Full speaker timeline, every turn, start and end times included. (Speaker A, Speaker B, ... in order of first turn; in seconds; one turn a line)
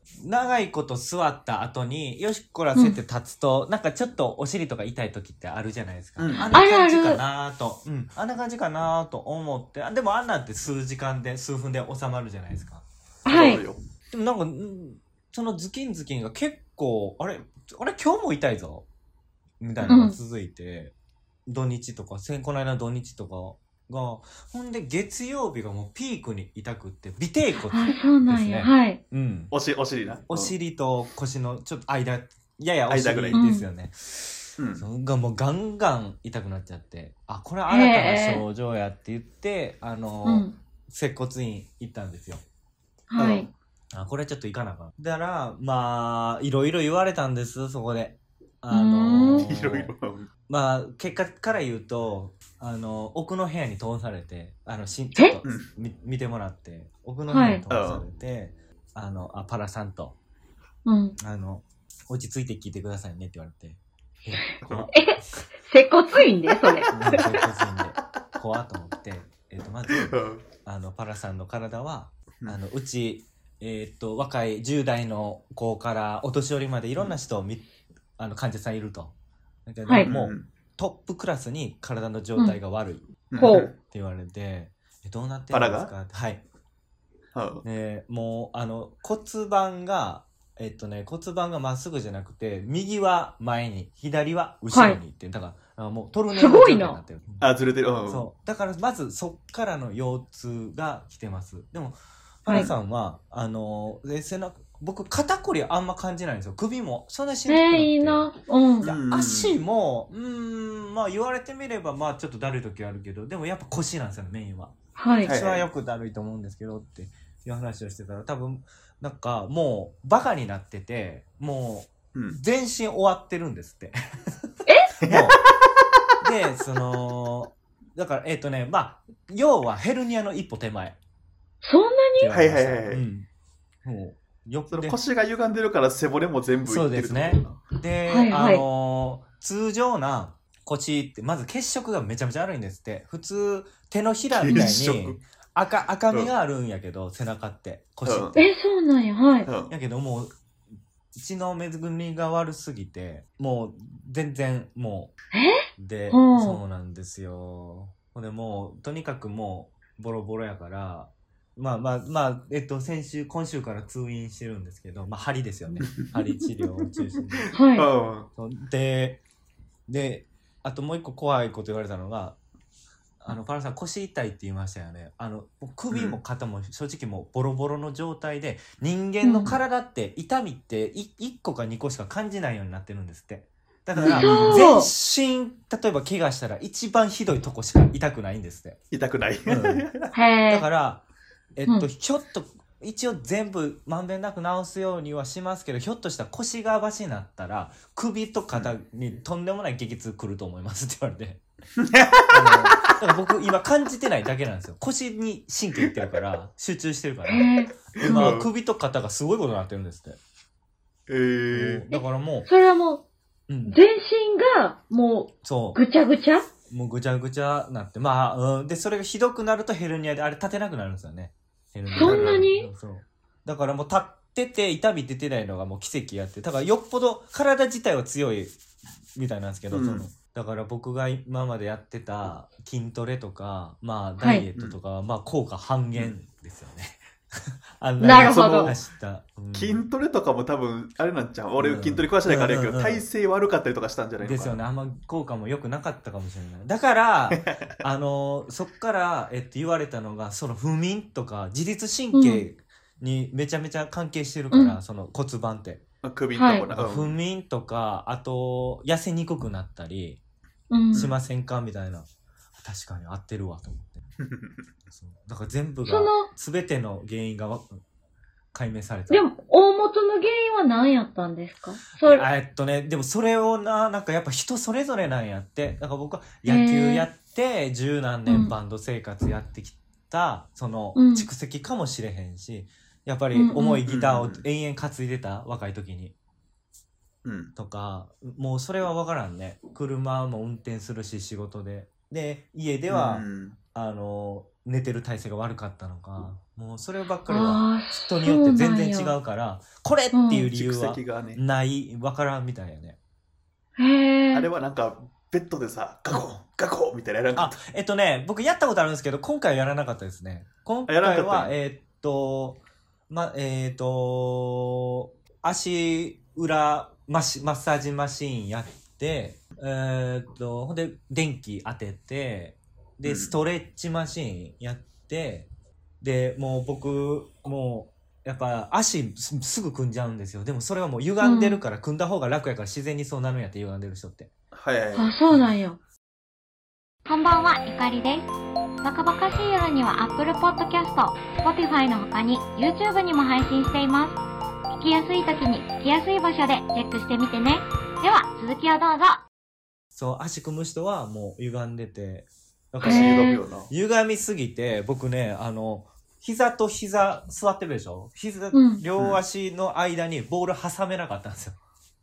Speaker A: 0.2-12.8
Speaker B: 6.2-6.5
Speaker C: 6.5-7.2
Speaker C: 13.3-13.6
Speaker B: 13.3-13.8
Speaker A: 14.1-18.9
Speaker A: 19.6-20.9
Speaker C: 19.8-20.2
Speaker A: 21.5-29.5
Speaker C: 27.7-29.0
Speaker B: 29.5-30.5
Speaker A: 30.3-42.4
Speaker B: 32.9-33.4
Speaker C: 33.3-33.7
Speaker B: 34.6-34.9
Speaker C: 37.7-38.4
Speaker C: 40.2-40.5
Speaker C: 43.1-43.5
Speaker B: 43.2-43.5
Speaker A: 43.9-49.9
Speaker C: 48.7-49.4
Speaker B: 49.4-50.3
Speaker A: 50.5-60.2
Speaker C: 57.3-57.6
Speaker B: 57.7-58.0
Speaker C: 60.9-61.2
Speaker A: 61.2-65.0
Speaker B: 64.6-64.9
Speaker C: 64.9-67.3
Speaker A: 66.9-70.1
Speaker B: 67.0-67.3
Speaker B: 69.9-70.4
Speaker A: 70.6-77.6
Speaker A: 78.2-79.1
Speaker A: 79.7-83.1
Speaker B: 80.0-80.5
Speaker B: 83.3-83.8
Speaker C: 83.4-83.7
Speaker A: 83.8-86.4
Speaker B: 85.5-85.9
Speaker B: 87.3-87.6
Speaker A: 87.6-97.5
Speaker C: 94.7-95.0
Speaker C: 96.3-97.0
Speaker B: 97.4-98.3
Speaker A: 98.1-108.3
Speaker C: 102.5-102.7
Speaker C: 107.5-108.9
Speaker B: 108.8-109.6
Speaker A: 108.8-124.0
Speaker C: 115.0-115.3
Speaker B: 115.3-115.7
Speaker B: 125.0-125.7
Speaker A: 125.0-125.4
Speaker A: 126.2-131.0
Speaker C: 131.6-132.3
Speaker A: 132.2-133.3
Speaker B: 132.3-133.0
Speaker A: 133.8-135.0
Speaker B: 134.7-137.6
Speaker A: 136.7-148.4
Speaker C: 138.1-138.6
Speaker B: 144.3-145.2
Speaker B: 148.1-148.4
Speaker C: 148.3-149.5
Speaker B: 149.5-149.7
Speaker A: 149.7-150.3
Speaker A: 151.1-155.1
Speaker C: 155.3-156.6
Speaker A: 155.8-167.5
Speaker C: 167.5-167.9
Speaker B: 167.8-168.3
Speaker A: 168.4-169.2
Speaker A: 169.9-172.4
Speaker A: 173.2-188.8
Speaker B: 175.9-176.2
Speaker C: 179.2-179.6
Speaker B: 183.9-184.6
Speaker C: 184.1-184.9
Speaker B: 188.9-190.1
Speaker A: 189.5-189.8
Speaker C: 190.1-190.7
Speaker A: 190.5-191.0
Speaker A: 191.6-201.4
Speaker B: 201.8-202.8
Speaker A: 202.3-210.2
Speaker C: 207.3-208.3
Speaker B: 208.0-208.5
Speaker B: 211.1-211.8
Speaker A: 211.5-212.5
Speaker C: 211.9-213.0
Speaker A: 213.5-213.8
Speaker C: 213.7-216.5
Speaker A: 215.4-215.8
Speaker A: 216.7-228.6
Speaker C: 221.9-222.7
Speaker B: 222.0-222.4
Speaker A: 229.2-237.0
Speaker B: 229.7-230.1
Speaker C: 234.2-234.5
Speaker A: 237.8-239.8
Speaker C: 238.0-238.7
Speaker B: 238.1-238.8
Speaker B: 239.5-244.6
Speaker A: 241.6-243.1
Speaker A: 244.2-255.8
Speaker B: 247.3-247.8
Speaker C: 252.1-252.4
Speaker C: 254.5-254.8
Speaker B: 256.0-257.2
Speaker C: 256.4-256.7
Speaker A: 256.7-260.2
Speaker C: 260.7-261.1
Speaker A: 260.9-262.1
Speaker A: 262.6-264.0
Speaker B: 264.2-264.6
Speaker A: 264.9-267.8
Speaker C: 265.8-266.3
Speaker A: 268.5-269.2
Speaker C: 269.1-272.3
Speaker A: 272.0-286.1
Speaker C: 276.4-277.1
Speaker C: 278.3-278.5
Speaker C: 280.9-281.3
Speaker C: 283.3-283.8
Speaker B: 283.9-284.4
Speaker B: 287.2-287.5
Speaker A: 287.6-303.0
Speaker B: 292.9-293.6
Speaker C: 297.3-299.1
Speaker C: 300.1-300.5
Speaker B: 300.5-301.4
Speaker C: 303.8-304.5
Speaker B: 304.3-307.6
Speaker A: 307.4-312.6
Speaker B: 310.9-311.5
Speaker A: 313.1-325.5
Speaker B: 323.1-323.4
Speaker A: 326.0-334.3
Speaker C: 331.2-331.6
Speaker B: 334.5-335.1
Speaker C: 334.9-335.8
Speaker D: 337.1-338.3
Speaker D: 338.8-344.2
Speaker D: 344.8-349.2
Speaker A: 349.9-361.6
Speaker B: 352.8-353.7
Speaker C: 352.8-353.4
Speaker C: 358.5-358.8